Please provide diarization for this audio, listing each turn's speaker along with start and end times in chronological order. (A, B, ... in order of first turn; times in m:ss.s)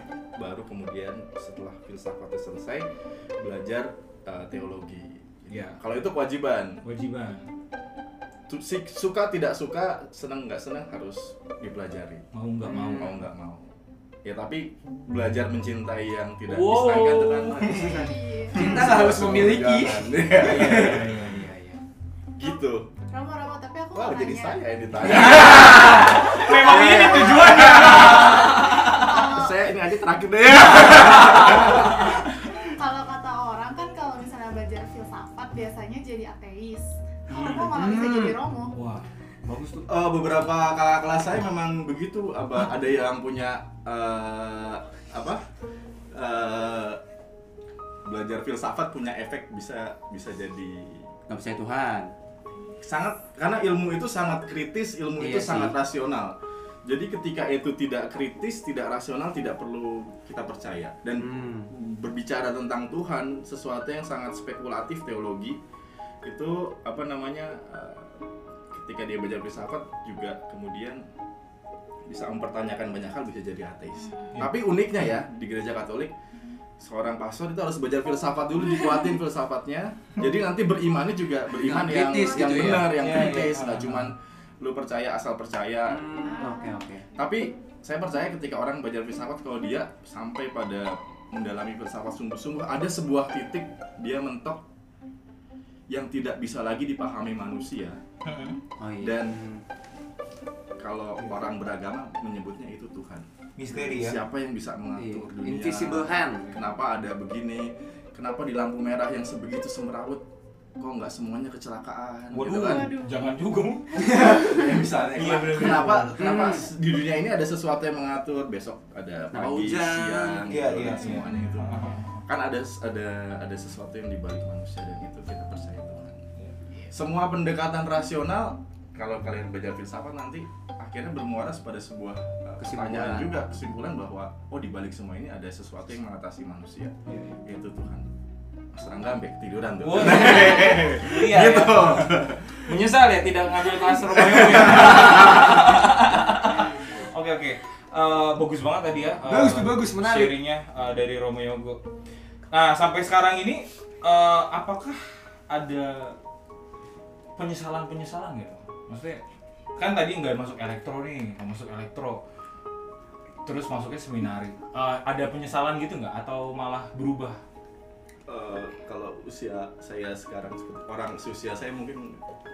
0:00.4-0:06.8 A
0:05.5-0:05.8 B
0:06.8-0:07.4 B
0:08.5-0:12.2 A
0:12.3-0:13.2 B
0:12.6-0:13.1 C
0:12.8-0:13.7 A
0:14.2-0:21.2 A
0:16.5-0:17.9 B
0:17.6-0:21.0 C
0:17.8-0:18.6 D
0:20.4-0:21.8 B
0:22.4-0:22.9 A
0:23.1-0:24.7 D
0:23.9-0:32.2 A
0:25.0-0:29.3 B
0:25.7-0:26.1 C
0:28.8-0:29.6 D
0:32.8-0:38.8 D
0:37.3-0:37.8 B
0:37.7-0:38.4 C
0:38.7-0:39.9 B
0:39.9-0:45.4 A
0:46.1-0:47.0 A
0:48.0-0:51.1 A
0:51.3-0:52.1 C
0:52.8-1:05.6 A
0:55.2-0:55.7 C
1:01.2-1:01.7 C
1:06.2-1:11.0 A
1:12.0-1:16.1 A
1:16.8-1:26.1 A
1:21.6-1:23.0 C
1:22.8-1:24.1 B
1:25.9-1:27.0 C
1:26.2-1:26.8 D
1:27.1-1:34.6 A
1:35.9-1:38.0 A
1:38.2-1:38.6 B
1:38.8-1:39.6 C
1:39.0-1:39.4 A
1:40.8-1:50.2 A
1:43.6-1:44.2 B
1:45.0-1:46.5 C
1:50.8-1:52.9 A
1:52.3-1:54.3 B
1:52.7-1:53.2 D
1:54.0-1:54.4 C
1:54.0-2:06.2 A
1:55.2-1:56.2 B
1:56.2-1:56.6 C
1:59.3-2:00.5 C
2:00.5-2:02.2 B
2:06.9-2:18.1 A
2:12.6-2:13.3 C
2:17.1-2:17.4 B
2:18.7-2:22.8 A
2:19.8-2:31.8 B
2:24.0-2:25.8 A
2:29.3-2:30.4 C
2:32.5-2:36.2 B
2:37.4-2:39.2 B
2:39.8-2:42.2 B
2:43.4-2:47.4 B
2:48.3-2:52.2 A